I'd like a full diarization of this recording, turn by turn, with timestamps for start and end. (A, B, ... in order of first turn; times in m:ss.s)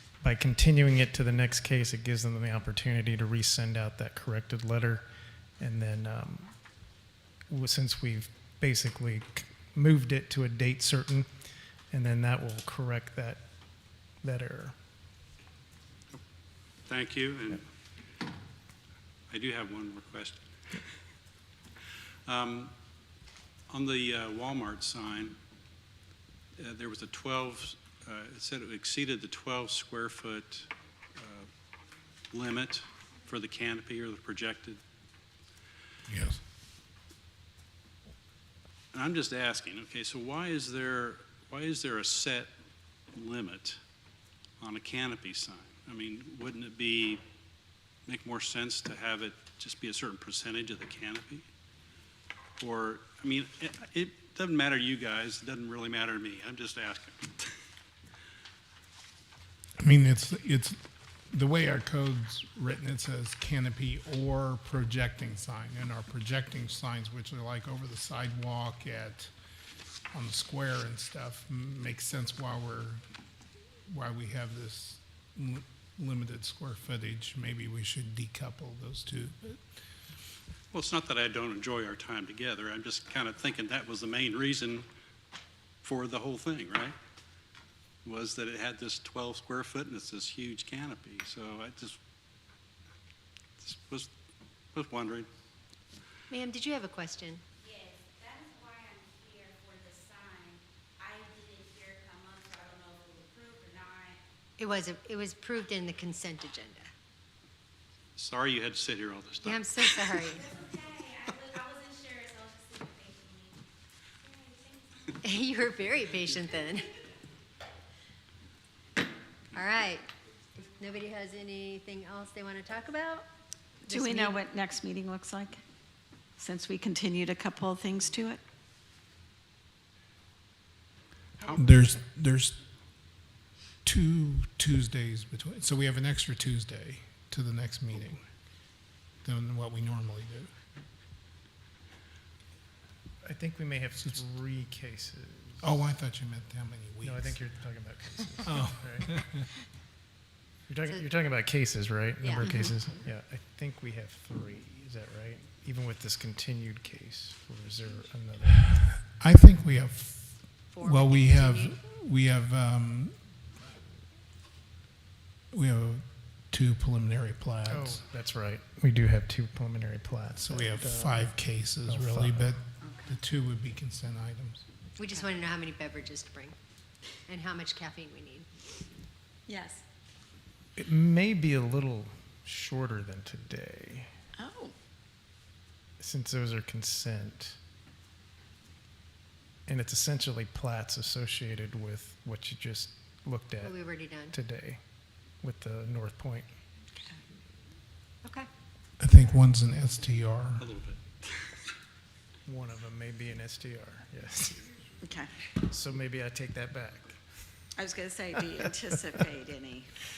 0:00.2-0:05.0 A
0:05.6-0:06.5 A
0:07.5-0:11.3 A
0:11.9-0:13.4 A
0:14.2-0:14.8 A
0:16.9-0:17.6 B
0:19.3-0:20.4 B
0:22.3-0:22.7 B
0:23.7-0:25.4 B
0:26.6-0:31.5 B
0:32.3-0:34.8 B
0:36.1-0:36.4 C
0:38.9-0:42.5 B
0:43.1-0:43.8 B
0:44.6-0:47.2 B
0:48.1-0:51.4 B
0:52.6-0:57.5 B
0:59.8-1:00.8 C
1:01.3-1:09.3 C
1:10.1-1:13.0 C
1:13.9-1:19.6 C
1:20.7-1:24.8 B
1:25.8-1:27.0 B
1:28.0-1:32.0 B
1:33.6-1:34.1 B
1:34.7-1:35.3 B
1:36.3-1:37.4 D
1:37.6-1:44.2 E
1:44.6-1:46.9 D
1:48.2-1:50.2 B
1:49.4-1:50.5 D
1:50.4-1:53.6 E
1:54.2-1:55.1 E
1:55.2-1:56.9 D
1:59.5-2:00.1 D
2:00.6-2:03.3 D
2:03.8-2:05.6 F
2:03.9-2:04.4 D
2:06.4-2:08.4 F
2:11.4-2:12.6 C
2:13.8-2:18.2 C
2:19.2-2:20.5 C
2:23.2-2:25.7 A
2:25.6-2:27.4 C
2:27.0-2:29.1 A
2:28.4-2:29.5 C
2:30.7-2:38.7 A
2:32.2-2:32.5 D
2:32.4-2:32.7 F
2:39.0-2:43.2 C
2:40.7-2:41.7 D
2:45.5-2:48.0 C
2:47.7-2:52.5 A
2:50.4-2:54.6 C
2:52.8-2:53.1 F
2:55.0-2:56.6 D
2:57.3-2:58.5 D
2:59.5-2:59.8 F
3:00.8-3:04.1 A
3:04.4-3:04.7 F
3:06.0-3:07.6 A
3:09.7-3:13.8 A
3:13.6-3:14.4 D
3:14.3-3:14.8 A
3:15.4-3:16.5 A
3:19.0-3:20.6 C
3:20.6-3:21.7 B
3:22.4-3:24.7 A
3:25.0-3:25.3 F
3:25.6-3:27.2 A
3:27.8-3:29.9 F